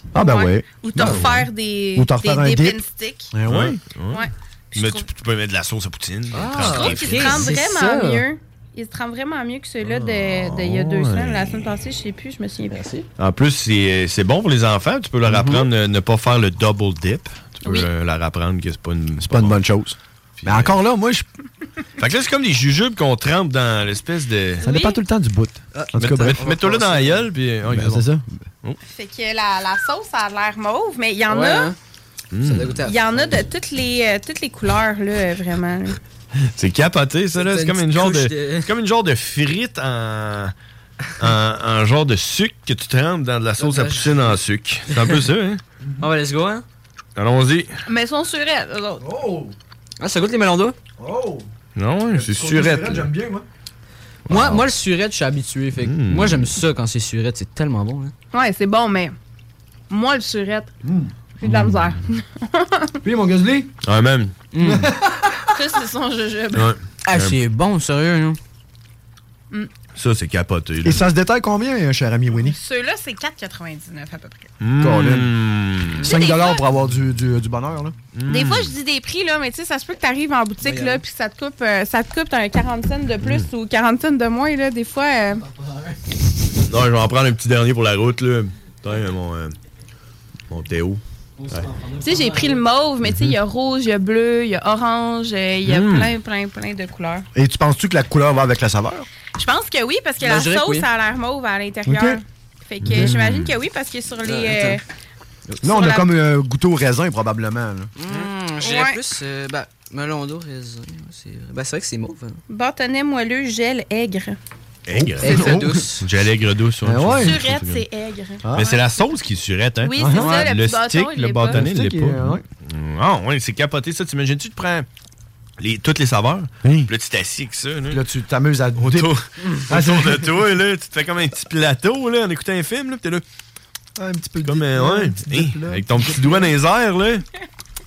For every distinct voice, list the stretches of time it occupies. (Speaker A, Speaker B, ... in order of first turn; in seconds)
Speaker A: 0.1-2.8, 3.3-3.8, 19.2-21.3, 24.6-26.4, 27.6-28.4, 49.0-49.5, 51.0-51.5, 52.1-53.4, 60.8-61.1, 63.0-63.7, 64.6-65.5, 70.8-72.6, 74.8-75.3, 76.0-78.0, 97.3-99.1, 101.9-102.2, 105.6-107.9, 114.9-115.7, 116.8-117.4, 118.4-118.7, 120.0-120.5, 121.5-122.4, 126.6-126.9, 127.9-129.1, 129.7-130.3, 134.0-136.5
Speaker B: 0.2-3.3, 4.1-5.1, 6.6-12.8, 17.6-17.9, 24.6-25.0, 28.9-31.7, 32.8-36.0, 47.9-49.0, 58.3-59.1, 59.9-60.7, 61.4-63.0, 65.5-66.7, 72.3-74.5, 76.0-76.7, 78.3-85.4, 92.0-97.3, 99.4-104.8, 105.6-106.1, 108.6-109.0, 112.5-114.4, 115.3-115.6, 117.2-119.0, 119.8-121.6
Speaker C: 1.0-1.4, 3.5-7.5, 9.8-11.8, 13.2-19.6, 20.4-20.7, 22.0-24.6, 26.0-28.1, 32.3-32.9, 36.4-40.5, 41.2-45.6, 47.1-47.7, 51.8-53.1, 54.3-54.6, 55.8-56.5, 63.8-64.3, 66.5-67.3, 69.9-71.0, 74.6-76.1, 78.1-78.8, 83.2-83.5, 86.7-89.5, 90.5-91.0, 93.0-93.3, 95.6-96.2, 102.8-103.6, 114.9-117.8, 118.5-124.9, 125.6-128.0, 128.8-133.2, 134.4-137.2
Speaker D: 6.3-8.2, 12.7-13.1, 15.3-15.6, 25.7-27.3, 31.3-31.8, 32.4-33.5, 37.4-38.7, 43.6-44.4, 46.0-46.6, 50.0-50.8, 54.3-58.1, 64.5-64.9, 67.1-68.4, 80.6-81.0, 85.4-86.0, 91.4-92.6, 100.2-100.9, 104.2-104.8, 105.5-105.7, 108.0-112.4, 115.2-116.0